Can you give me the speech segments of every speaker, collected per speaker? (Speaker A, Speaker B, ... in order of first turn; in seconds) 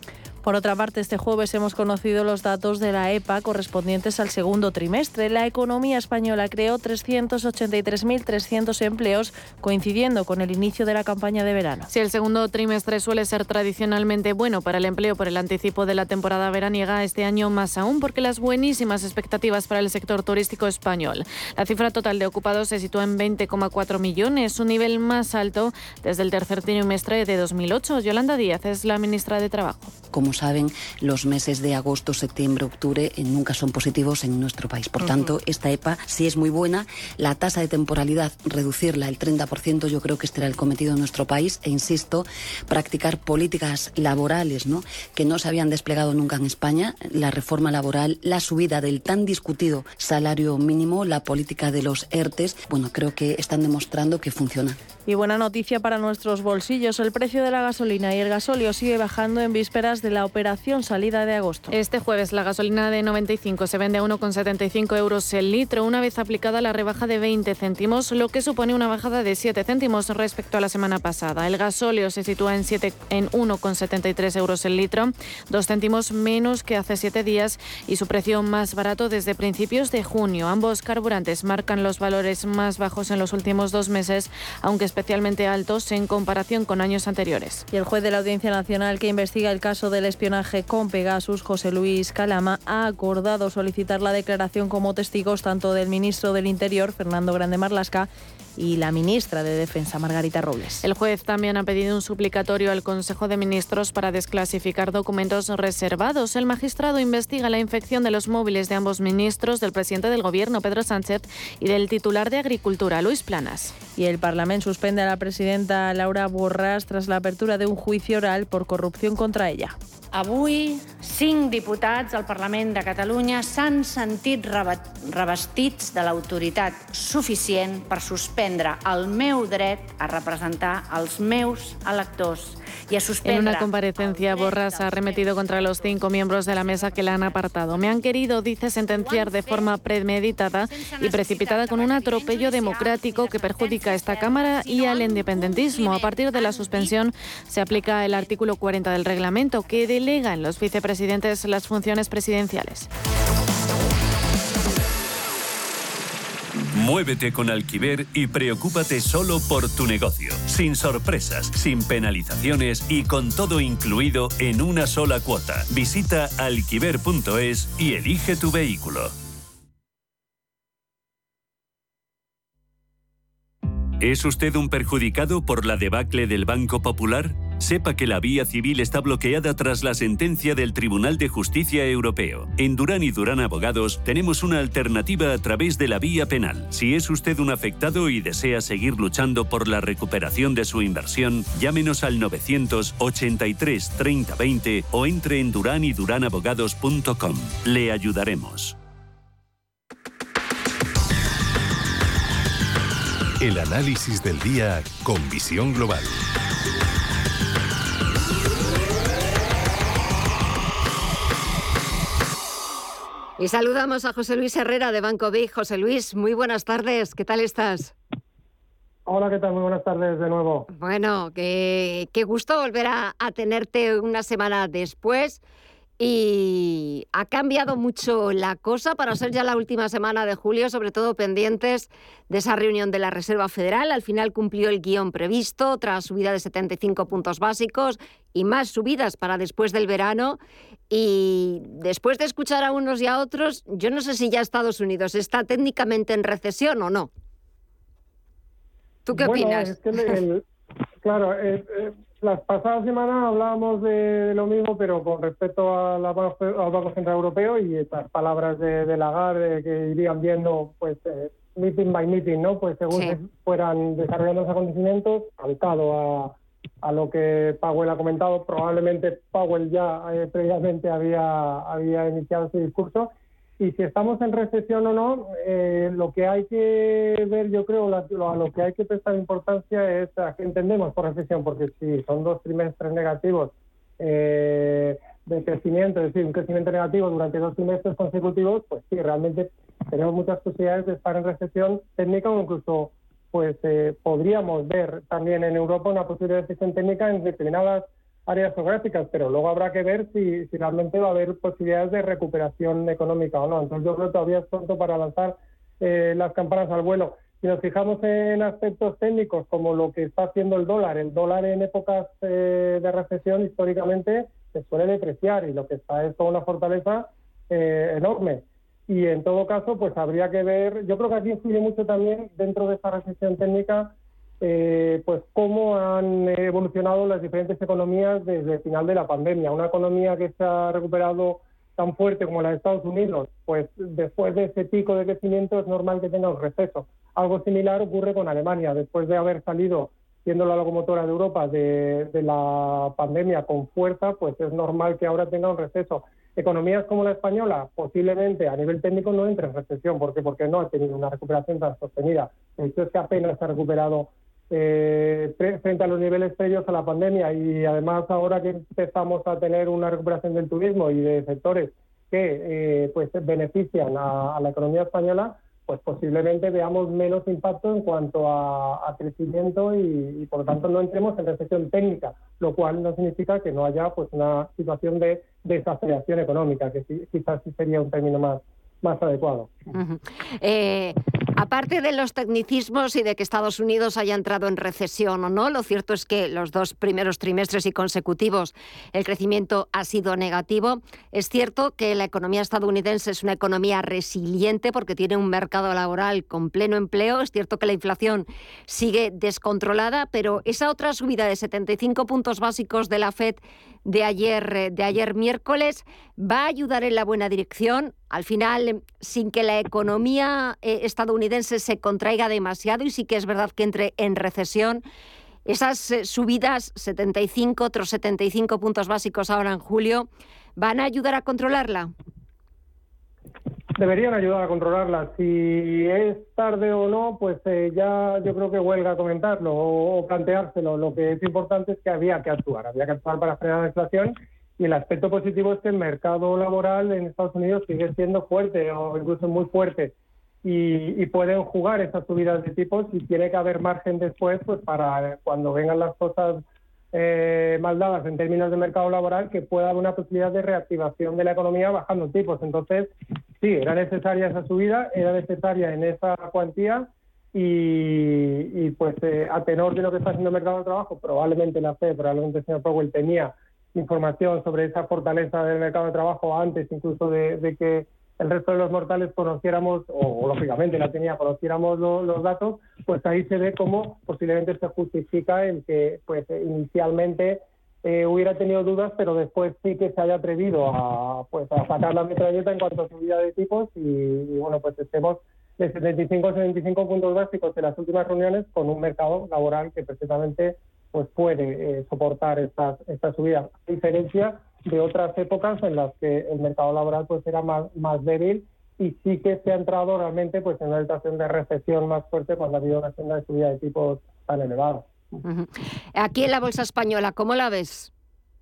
Speaker A: 0.4-11.9, 55.1-61.7, 87.7-100.9, 114.0-119.8
Speaker B: 11.9-29.9, 61.7-87.6, 100.8-113.7, 133.2-152.9
Speaker C: 30.1-54.8
Speaker D: 120.1-138.0, 138.8-147.0, 147.7-148.5, 149.6-150.0
Speaker E: 156.7-169.1, 174.0-198.8
Speaker F: 203.4-206.1
Speaker G: 213.4-217.9, 220.7-225.4, 226.0-240.4, 240.9-247.1, 249.1-250.2, 262.9-263.2, 379.7-414.8, 415.4-421.9, 505.2-507.9
Speaker H: 219.1-220.7, 249.1-250.4, 251.0-379.5, 423.8-504.9